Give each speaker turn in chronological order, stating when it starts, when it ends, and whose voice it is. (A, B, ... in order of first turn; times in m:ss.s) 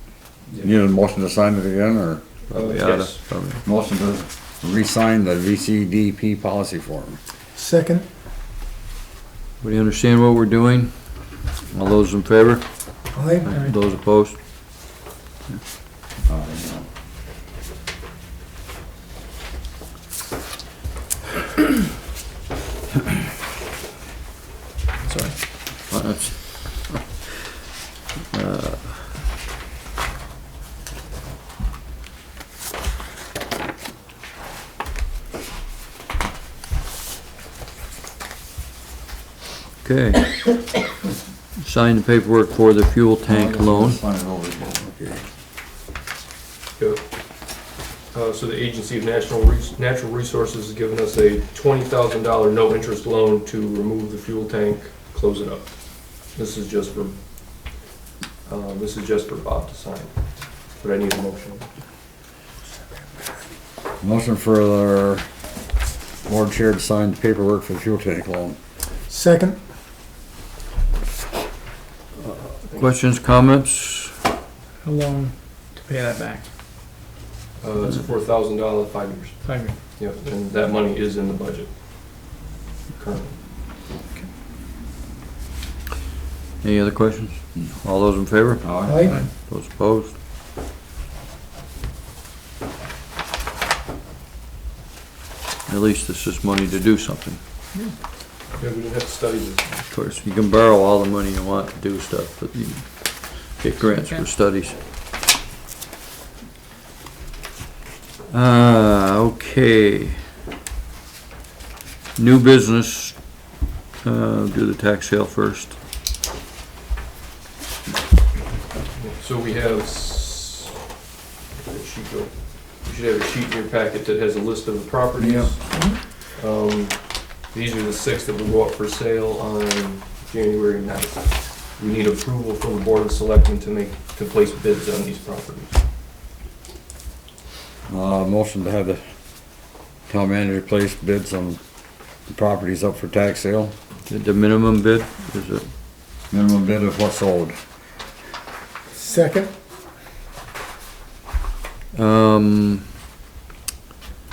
0:00.6-0:02.2 A
0:02.5-0:03.6 B
0:02.5-0:03.2 C
0:03.6-0:07.2 A
0:07.5-0:08.1 D
0:09.6-0:15.0 B
0:13.1-0:13.5 D
0:13.5-0:13.8 E
0:16.3-0:16.9 A
0:25.0-0:25.4 E
0:25.9-0:27.6 B
0:28.3-0:29.1 B
0:39.8-0:40.8 B
0:41.6-0:44.0 B
0:43.3-0:45.3 A
0:46.8-0:57.2 C
0:58.4-1:01.7 C
1:04.0-1:05.3 A
1:06.2-1:08.6 A
1:09.1-1:09.6 D
1:12.2-1:14.2 B
1:14.8-1:16.5 E
1:17.6-1:21.7 C
1:19.4-1:19.8 E
1:22.9-1:23.4 C
1:26.6-1:30.2 B
1:28.6-1:29.1 A
1:28.8-1:29.2 D
1:35.7-1:37.4 B
1:38.5-1:39.7 C
1:39.9-1:44.8 B
1:43.8-1:44.3 E
1:48.3-1:50.2 B
1:52.2-1:53.4 B
1:54.0-1:55.8 B
1:59.0-2:00.9 C
2:01.6-2:15.8 C
2:05.2-2:05.5 A
2:17.9-2:19.0 A
2:20.1-2:21.6 A
2:22.3-2:23.7 A
2:24.1-2:25.7 B
2:26.3-2:27.6 A
2:28.9-2:29.5 D
2:31.9-2:32.9 B